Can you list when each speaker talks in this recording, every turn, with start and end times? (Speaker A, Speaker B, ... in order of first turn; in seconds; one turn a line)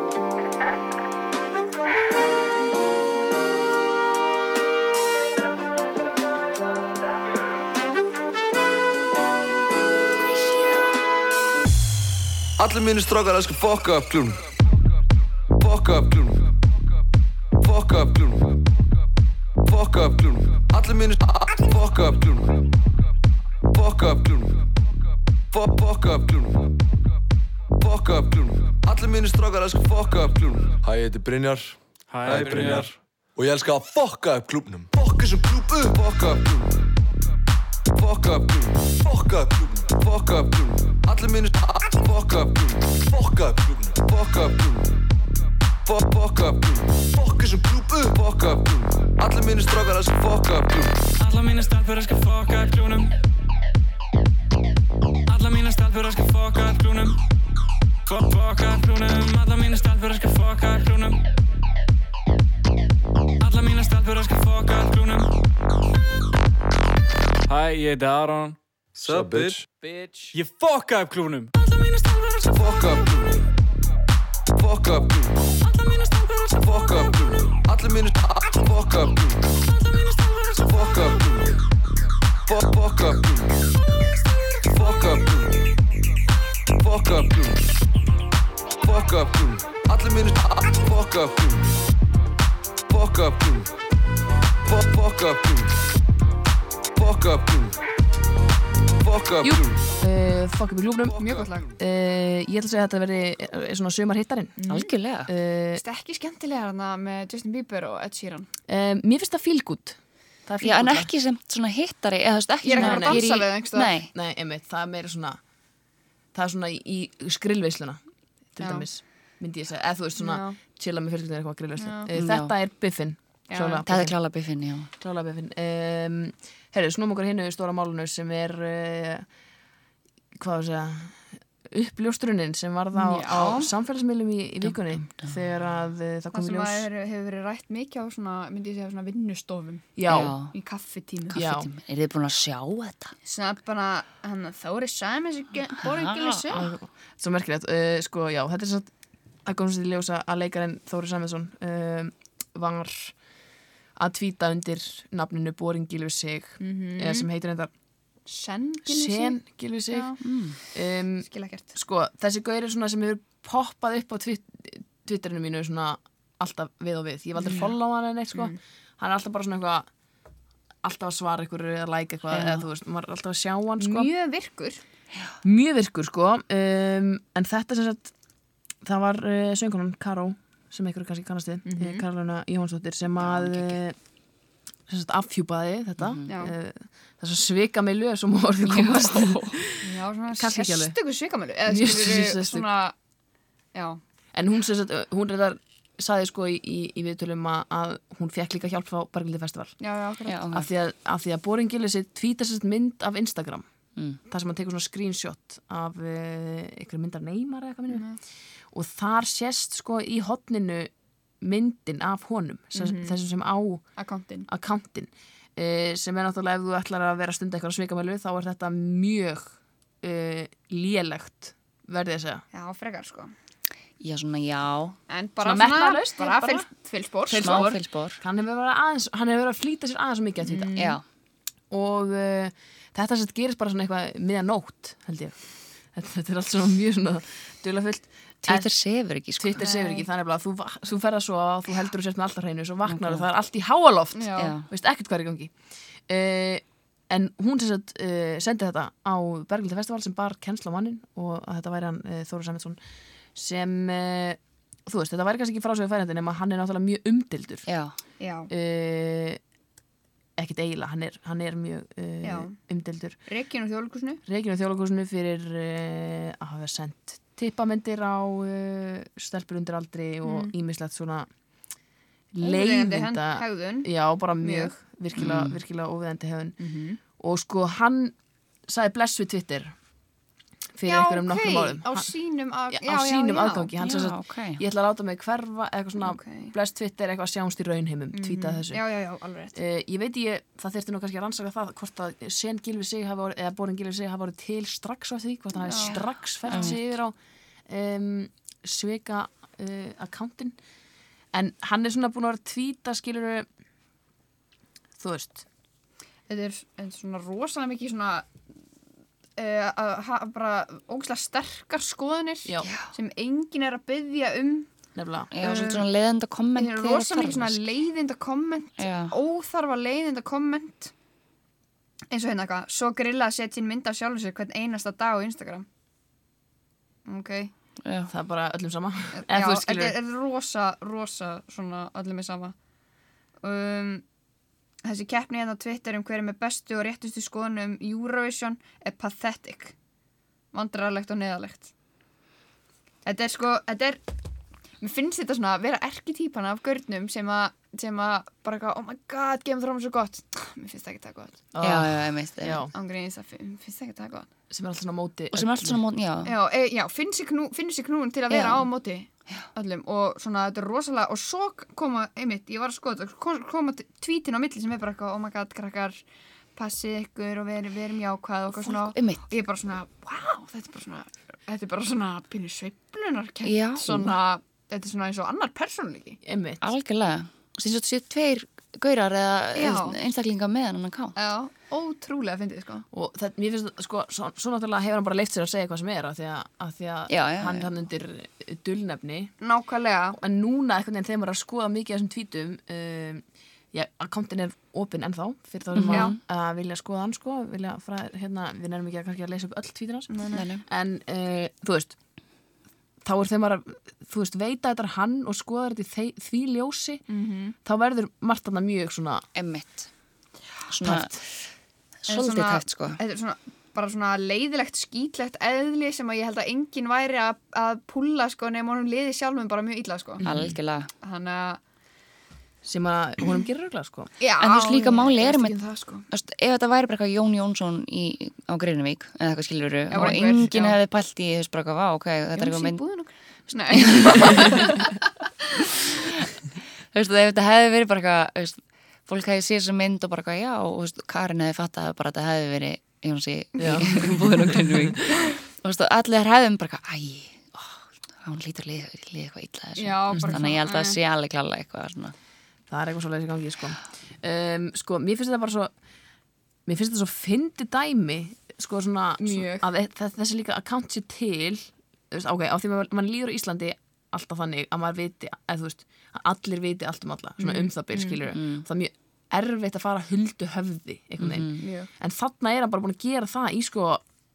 Speaker A: 12.6-14.5
Speaker A: 15.5-16.5
Speaker A: 17.6-18.6
Speaker A: 19.6-22.7
Speaker A: 23.7-24.6
Speaker A: 25.5-26.8
Speaker A: 27.8-36.9
Speaker B: 32.1-33.0
Speaker A: 37.9-45.0
Speaker A: 45.9-51.0
Speaker B: 51.2-53.1
Speaker B: 55.3-57.2
Speaker B: 58.0-61.2
Speaker B: 63.4-65.3
Speaker B: 67.5-69.7
Speaker A: 69.0-69.6
Speaker B: 70.3-71.5
Speaker A: 71.7-73.4
Speaker A: 74.5-81.6
Speaker A: 82.5-85.6
Speaker A: 86.7-87.6
Speaker A: 88.8-91.7
Speaker A: 92.9-93.7
Speaker A: 94.7-95.7
Speaker A: 96.9-97.8
Speaker A: 99.0-99.8
Speaker C: 99.4-104.7
Speaker A: 101.0-101.6
Speaker D: 101.2-101.7
Speaker D: 104.6-104.9
Speaker E: 104.7-105.3
Speaker C: 105.2-105.8
Speaker D: 105.8-108.5
Speaker C: 108.7-111.1
Speaker E: 110.6-114.1
Speaker D: 112.6-113.9
Speaker C: 112.7-113.2
Speaker C: 114.1-115.4
Speaker C: 116.3-124.2
Speaker D: 118.6-118.9
Speaker D: 120.2-120.6
Speaker D: 121.8-122.1
Speaker E: 122.1-122.5
Speaker D: 123.5-123.8
Speaker E: 123.8-124.9
Speaker C: 125.0-129.3
Speaker C: 130.3-136.9
Speaker D: 132.9-133.7
Speaker E: 134.6-135.3
Speaker D: 136.3-140.0
Speaker C: 139.9-140.3
Speaker E: 140.1-140.5
Speaker D: 140.5-141.4
Speaker C: 141.3-141.7
Speaker E: 141.3-143.1
Speaker D: 143.2-146.7
Speaker E: 145.8-146.7
Speaker C: 146.5-148.9
Speaker C: 149.4-153.2
Speaker C: 153.9-157.7
Speaker D: 156.6-157.3
Speaker D: 158.2-160.2
Speaker C: 158.8-169.9
Speaker E: 160.2-160.6
Speaker D: 161.3-161.7
Speaker D: 167.4-167.7
Speaker C: 170.8-174.1
Speaker E: 172.3-172.6
Speaker D: 173.8-174.8
Speaker C: 175.4-178.1
Speaker C: 178.8-183.9
Speaker D: 181.7-182.0
Speaker E: 183.2-183.8
Speaker C: 184.9-189.8
Speaker E: 186.0-186.4
Speaker D: 186.3-186.5
Speaker E: 188.6-189.6
Speaker D: 189.8-192.9
Speaker C: 190.3-191.0
Speaker C: 191.7-192.7
Speaker D: 193.7-194.0
Speaker C: 194.3-199.8
Speaker D: 199.8-200.4
Speaker E: 200.2-200.7
Speaker C: 200.5-203.7
Speaker C: 204.2-208.1
Speaker D: 207.9-208.2
Speaker C: 208.7-213.9
Speaker D: 212.7-213.2
Speaker D: 214.0-214.5
Speaker C: 214.5-222.4
Speaker D: 222.5-223.3
Speaker E: 224.0-225.0
Speaker D: 225.1-227.7
Speaker C: 225.4-226.7
Speaker C: 227.3-230.9
Speaker E: 227.4-228.2
Speaker D: 230.4-230.9
Speaker E: 230.8-231.0
Speaker C: 231.7-235.4
Speaker C: 235.9-238.7
Speaker E: 238.4-239.6
Speaker C: 239.4-252.8
Speaker D: 239.6-240.1
Speaker E: 242.9-243.2
Speaker D: 244.1-244.5
Speaker E: 244.4-244.7
Speaker C: 253.3-257.7
Speaker E: 257.7-257.9
Speaker D: 258.2-258.5
Speaker C: 258.5-259.4
Speaker C: 260.4-263.2
Speaker D: 262.2-262.6
Speaker D: 263.2-264.2
Speaker C: 264.2-271.3
Speaker D: 270.2-270.5
Speaker C: 272.3-276.6
Speaker D: 272.4-274.7
Speaker E: 275.1-275.6
Speaker D: 276.6-277.0
Speaker C: 277.2-278.1
Speaker C: 278.7-279.7
Speaker C: 280.7-282.1
Speaker D: 280.8-283.7
Speaker C: 282.7-288.8
Speaker E: 283.8-284.6
Speaker D: 286.0-286.5
Speaker D: 288.1-289.6
Speaker C: 289.5-297.1
Speaker D: 295.6-296.8
Speaker E: 296.5-296.8
Speaker C: 297.6-300.5
Speaker C: 301.3-303.5
Speaker C: 305.0-305.4
Speaker D: 306.3-308.3
Speaker D: 309.4-314.7
Speaker E: 312.6-312.9
Speaker C: 314.9-315.3
Speaker E: 315.3-317.6
Speaker D: 315.4-315.9
Speaker D: 316.6-320.9
Speaker E: 318.8-319.1
Speaker D: 322.1-325.6
Speaker D: 327.1-327.5
Speaker E: 327.8-328.1
Speaker C: 328.1-329.9
Speaker D: 329.1-332.5
Speaker D: 333.4-334.0
Speaker D: 334.8-339.7
Speaker D: 340.5-341.7
Speaker D: 343.0-344.2
Speaker D: 344.8-351.4
Speaker C: 351.5-352.7
Speaker E: 351.6-352.6
Speaker D: 352.7-354.3
Speaker C: 354.5-355.8
Speaker E: 355.3-356.3
Speaker D: 356.2-366.0
Speaker E: 358.3-358.7
Speaker D: 366.5-376.2
Speaker E: 368.6-369.3
Speaker E: 373.4-374.1
Speaker C: 376.2-376.7
Speaker E: 376.6-381.1
Speaker D: 379.5-380.0
Speaker D: 381.1-382.9
Speaker C: 382.9-389.3
Speaker E: 387.1-387.7
Speaker D: 389.4-390.2
Speaker C: 390.1-402.0
Speaker E: 395.7-396.2
Speaker D: 400.1-400.5
Speaker E: 400.3-400.6
Speaker C: 403.0-407.1
Speaker D: 407.1-407.5
Speaker C: 407.6-409.2
Speaker E: 409.3-409.9
Speaker E: 410.7-411.5
Speaker C: 410.8-411.2
Speaker E: 412.0-413.0
Speaker D: 412.1-420.2
Speaker C: 420.2-420.5
Speaker E: 420.2-420.9
Speaker D: 421.0-421.6
Speaker C: 422.6-424.1
Speaker D: 424.2-426.1
Speaker E: 424.4-432.8
Speaker D: 429.9-430.8
Speaker D: 432.3-434.9
Speaker E: 433.5-434.7
Speaker E: 436.9-452.1
Speaker D: 443.6-443.8
Speaker C: 443.6-445.0
Speaker D: 449.8-451.0
Speaker C: 450.1-450.4
Speaker C: 452.7-455.7
Speaker C: 456.6-474.0
Speaker D: 459.2-459.7
Speaker D: 467.4-468.2
Speaker E: 468.3-468.6
Speaker E: 471.2-471.6
Speaker D: 471.6-471.9